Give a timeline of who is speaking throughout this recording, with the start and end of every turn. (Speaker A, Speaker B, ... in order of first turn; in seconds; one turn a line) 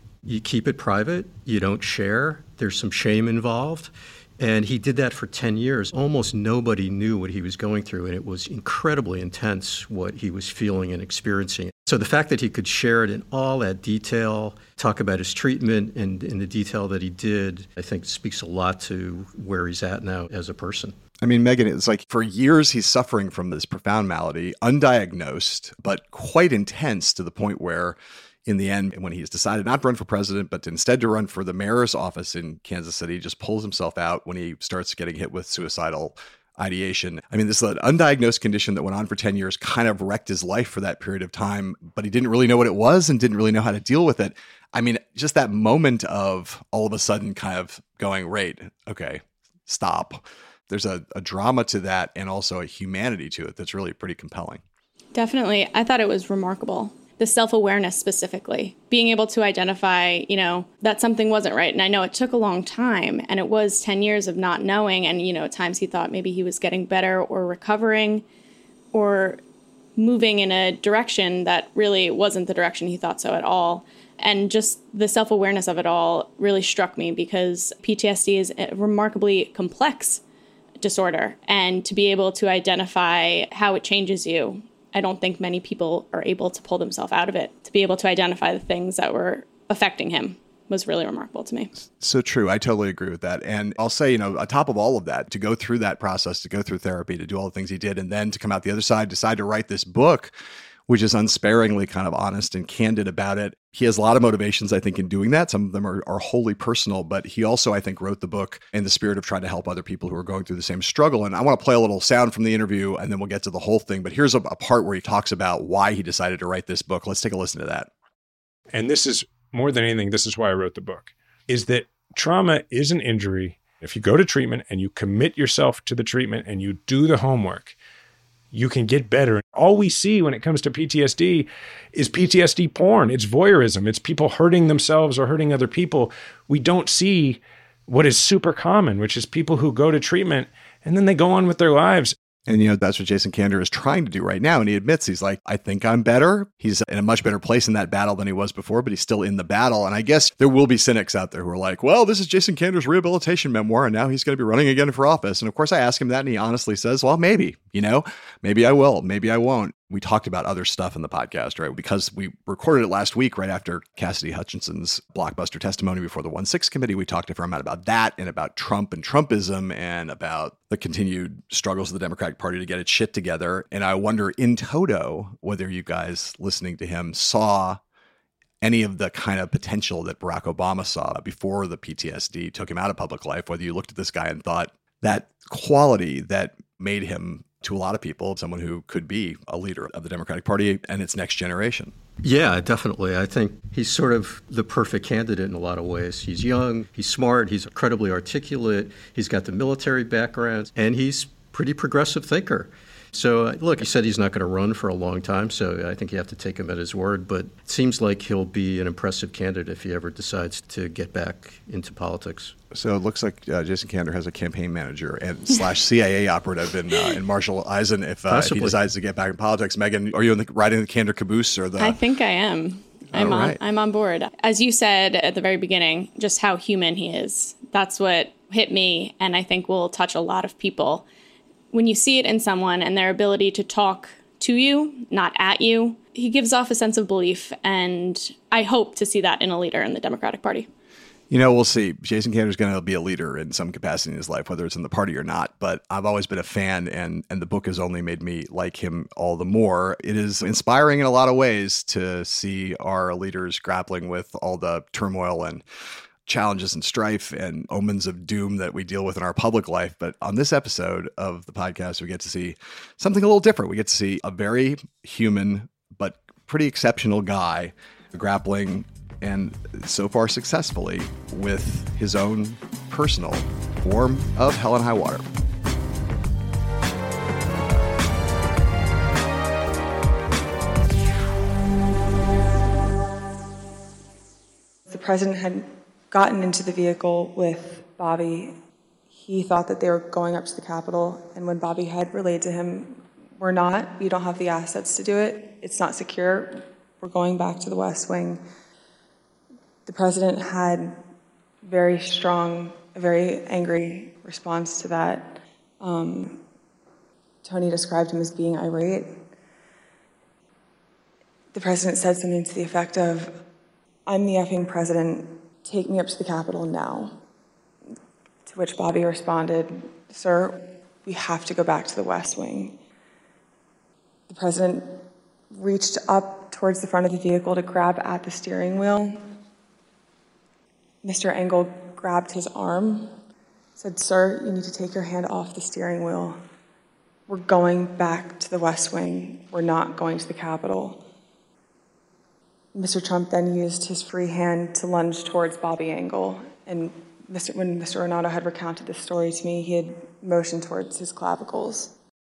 Speaker A: 0.2-20.9
Speaker B: 21.2-54.6
Speaker C: 55.1-68.2
Speaker C: 68.9-69.4
Speaker C: 70.0-80.2
Speaker C: 80.8-91.7
Speaker B: 92.0-100.3
Speaker B: 100.9-117.9
Speaker D: 118.7-127.7
Speaker D: 128.5-142.1
Speaker B: 142.5-177.8
Speaker B: 178.6-191.9
Speaker A: 192.2-212.5
Speaker B: 212.7-222.0
Speaker A: 218.3-218.8
Speaker C: 221.8-231.0
Speaker B: 223.1-223.6
Speaker C: 231.7-240.7
Speaker B: 241.3-255.6
Speaker B: 256.2-275.2
Speaker E: 284.9-288.5
Speaker E: 289.2-298.4
Speaker E: 299.9-300.9
Speaker E: 301.6-306.4
Speaker E: 307.4-309.1
Speaker E: 311.5-313.4
Speaker E: 314.1-317.1
Speaker E: 318.5-322.8
Speaker E: 324.3-325.0
Speaker E: 325.5-329.2
Speaker E: 331.0-333.1
Speaker E: 333.8-336.4
Speaker E: 337.3-341.0
Speaker E: 342.7-351.9